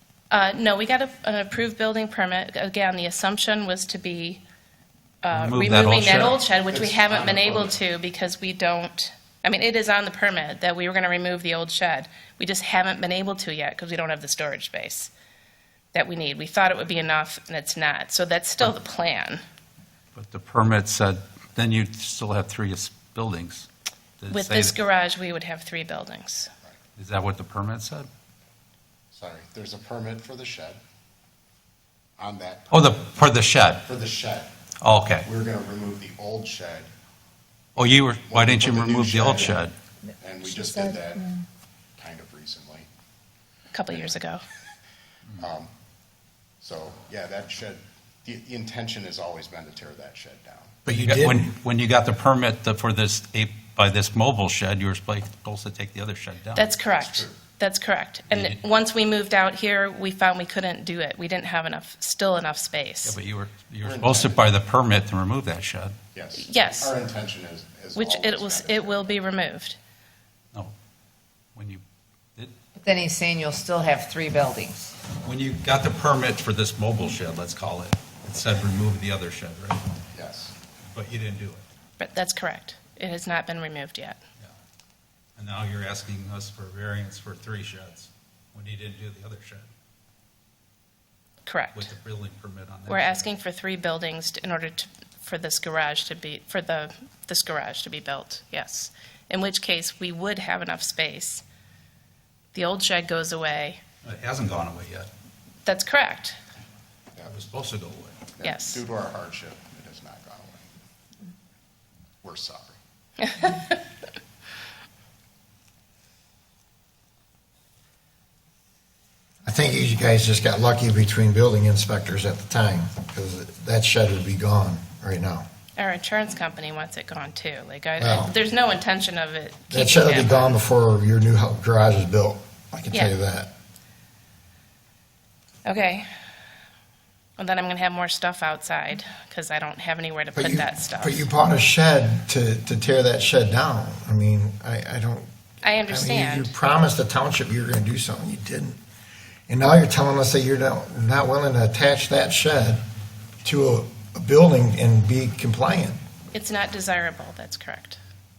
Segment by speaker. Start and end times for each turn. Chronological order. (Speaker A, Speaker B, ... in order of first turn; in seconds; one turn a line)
Speaker A: 0.3-4.4
Speaker A: 5.2-15.1
Speaker B: 5.3-6.4
Speaker C: 6.7-7.8
Speaker A: 15.9-19.4
Speaker B: 20.1-23.7
Speaker B: 24.2-24.7
Speaker A: 24.3-26.5
Speaker B: 27.0-28.1
Speaker C: 29.1-30.8
Speaker C: 32.2-34.5
Speaker B: 32.7-33.8
Speaker B: 34.8-35.3
Speaker C: 35.2-36.9
Speaker C: 37.7-39.6
Speaker B: 37.8-39.7
Speaker C: 40.2-41.4
Speaker C: 42.0-42.9
Speaker A: 43.7-44.4
Speaker C: 43.9-44.1
Speaker C: 45.4-45.7
Speaker C: 46.6-50.7
Speaker D: 50.8-51.5
Speaker B: 50.9-56.7
Speaker A: 56.5-63.2
Speaker C: 56.8-57.4
Speaker B: 58.3-58.6
Speaker B: 63.0-66.0
Speaker C: 63.8-64.5
Speaker C: 66.1-69.2
Speaker A: 66.4-66.9
Speaker A: 67.9-69.8
Speaker B: 71.5-71.8
Speaker E: 72.8-75.0
Speaker B: 75.2-79.8
Speaker C: 80.1-80.5
Speaker B: 80.9-81.6
Speaker A: 82.0-84.2
Speaker B: 85.4-89.7
Speaker A: 91.4-91.9
Speaker B: 91.7-93.3
Speaker A: 92.9-101.4
Speaker A: 102.5-103.8
Speaker B: 104.0-105.1
Speaker A: 105.6-106.4
Speaker B: 107.3-108.2
Speaker C: 108.3-110.7
Speaker A: 108.4-108.8
Speaker C: 112.2-112.8
Speaker A: 113.2-113.7
Speaker D: 119.4-125.5
Speaker A: 125.8-130.6
Speaker D: 128.0-128.3
Speaker D: 129.7-133.5
Speaker A: 135.7-136.1
Speaker A: 137.4-141.2
Speaker D: 140.3-145.3
Speaker A: 145.6-146.5
Speaker D: 145.9-148.8
Speaker D: 149.5-152.8
Speaker D: 153.4-156.0
Speaker A: 156.3-158.0